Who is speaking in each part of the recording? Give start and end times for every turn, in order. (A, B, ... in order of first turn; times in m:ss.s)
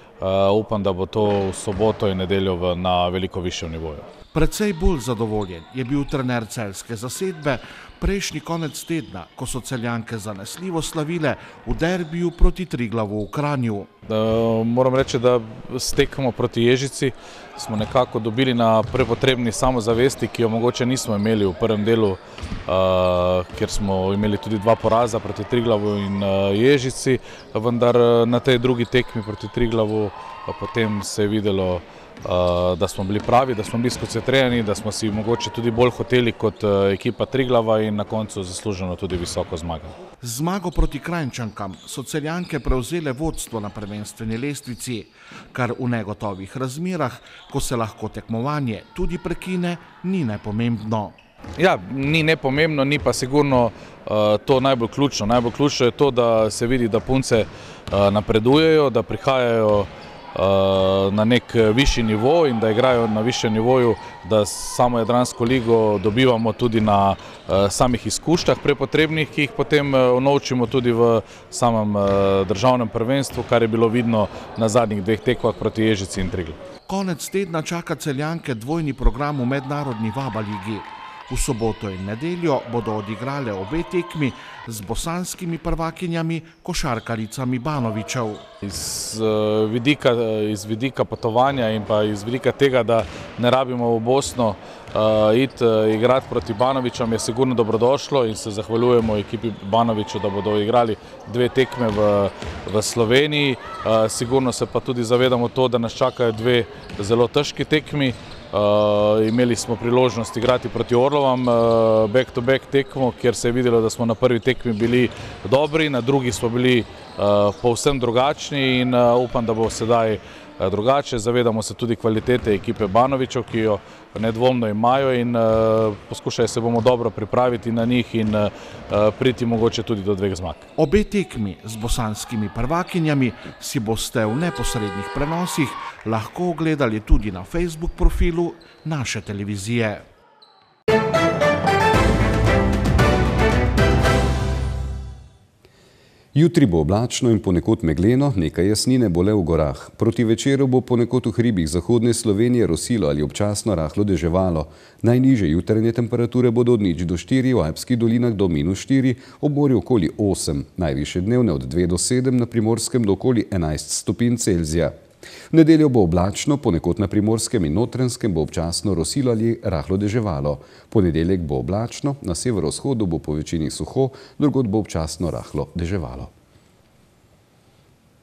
0:00.2-0:04.1 A
0:04.3-0:13.9 B
0:14.1-0:40.0 A
0:40.2-0:51.2 B
0:51.6-1:16.6 A
1:16.9-1:28.4 B
1:28.6-2:10.6 A
2:10.8-2:20.0 B
2:26.3-2:44.9 C
2:45.5-2:56.3 C